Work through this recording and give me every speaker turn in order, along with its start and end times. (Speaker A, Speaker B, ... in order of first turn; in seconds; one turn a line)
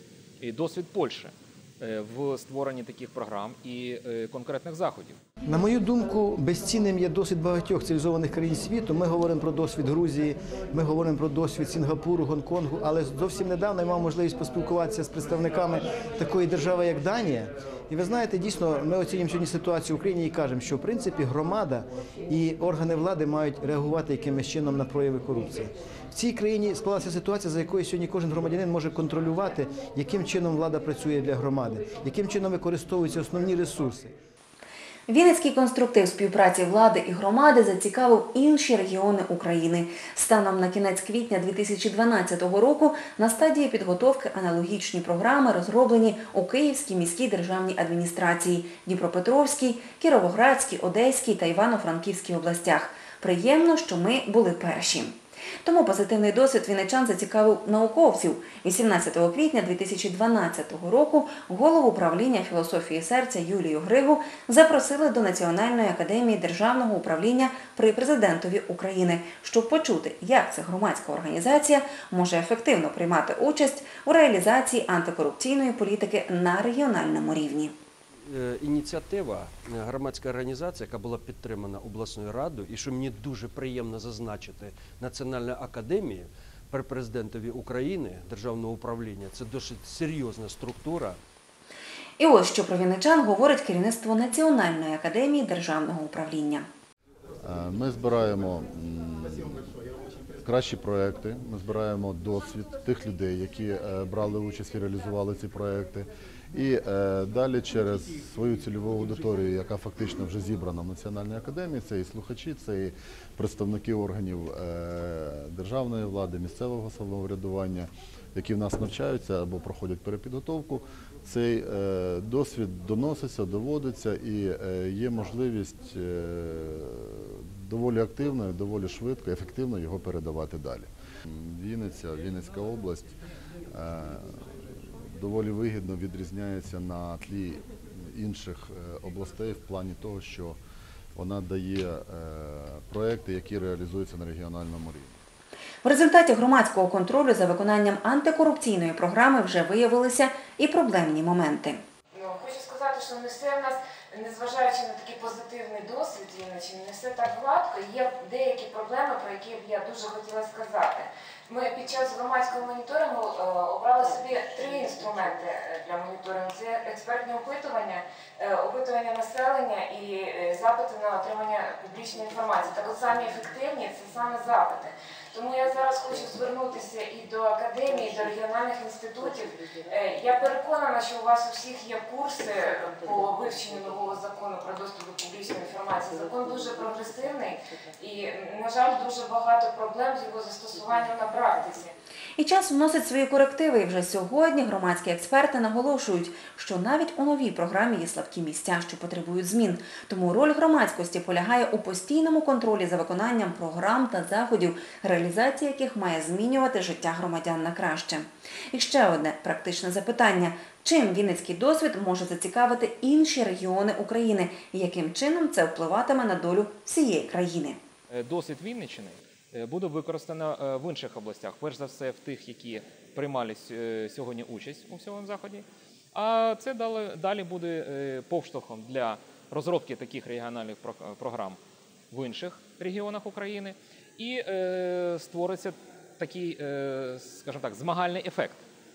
Speaker A: 0.4-5.2
Speaker B: 5.5-34.1
Speaker C: 35.1-77.8
Speaker D: 78.2-91.2
Speaker C: 92.2-96.7
Speaker E: 97.4-99.8
Speaker E: 100.4-133.1
Speaker E: 133.7-140.6
Speaker E: 141.2-145.2
Speaker C: 145.8-151.8
Speaker F: 152.1-191.9
Speaker C: 192.4-217.8
Speaker A: 218.1-231.6
Speaker A: 232.1-238.6